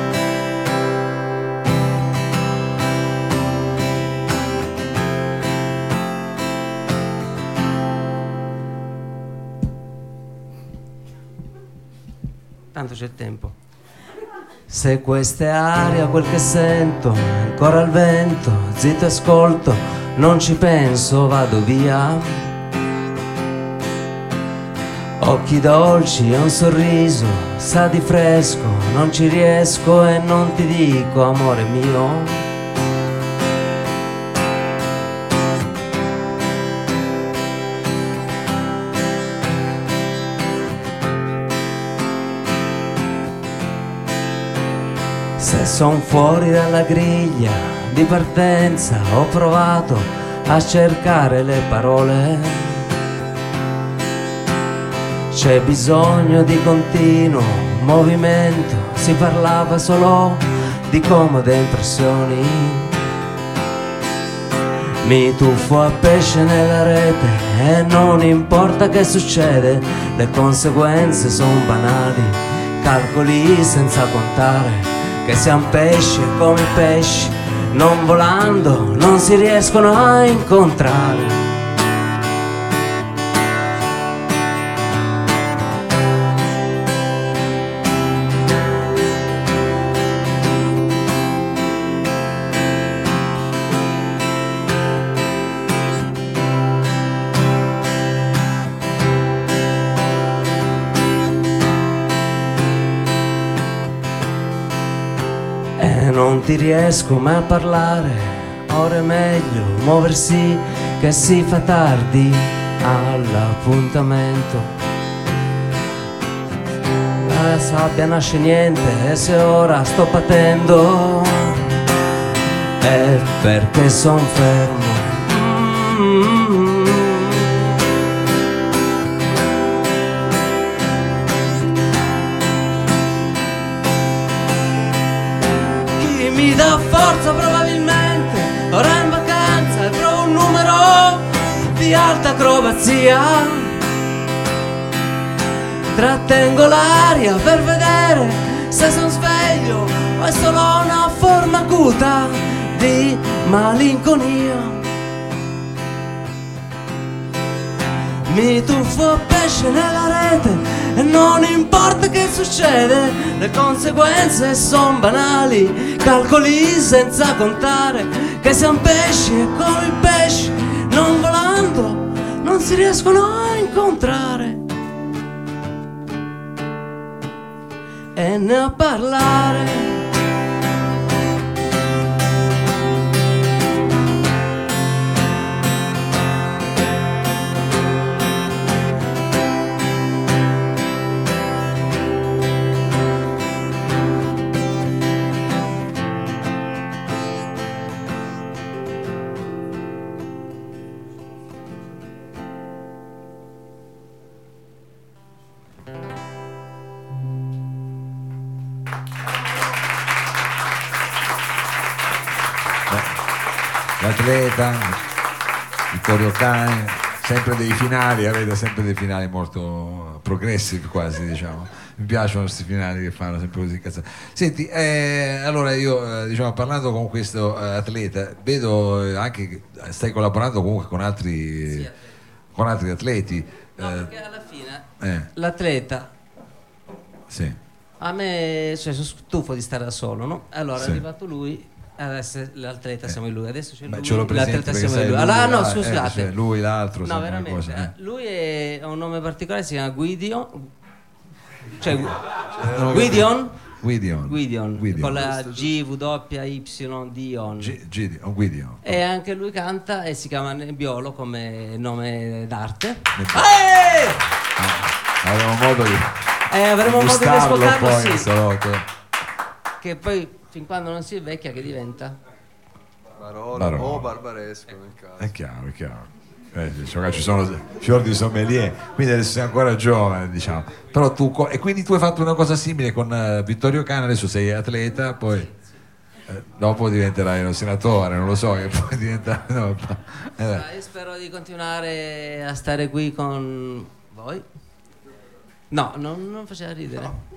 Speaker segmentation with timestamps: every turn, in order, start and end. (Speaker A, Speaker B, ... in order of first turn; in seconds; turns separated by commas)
Speaker A: 12.7-13.6, Speaker A: 14.7-22.5, Speaker A: 25.2-32.5, Speaker A: 45.4-52.9, Speaker A: 55.3-62.9, Speaker A: 65.0-81.4, Speaker A: 105.8-114.7, Speaker A: 117.2-121.7, Speaker A: 122.8-127.5, Speaker A: 136.0-143.8, Speaker A: 145.9-154.9, Speaker A: 158.3-174.6, Speaker A: 178.2-180.0, Speaker B: 212.9-213.2, Speaker B: 214.0-215.0, Speaker B: 215.9-231.9, Speaker A: 231.7-232.1, Speaker B: 232.6-234.1, Speaker A: 233.8-236.1, Speaker B: 235.0-235.3, Speaker B: 237.3-237.6, Speaker A: 238.0-246.3, Speaker B: 240.8-241.0, Speaker B: 243.9-247.9, Speaker A: 247.0-250.7, Speaker A: 251.8-252.2, Speaker B: 252.7-255.3, Speaker A: 252.7-253.6, Speaker A: 254.3-257.8, Speaker C: 255.3-255.6, Speaker B: 257.6-259.0, Speaker A: 258.8-264.2, Speaker B: 263.2-266.2, Speaker A: 266.5-268.3, Speaker B: 266.8-268.9, Speaker A: 269.8-272.2, Speaker C: 273.2-275.4, Speaker B: 273.5-274.2, Speaker B: 275.2-285.5, Speaker B: 286.3-290.6, Speaker A: 290.5-294.4, Speaker A: 295.7-297.2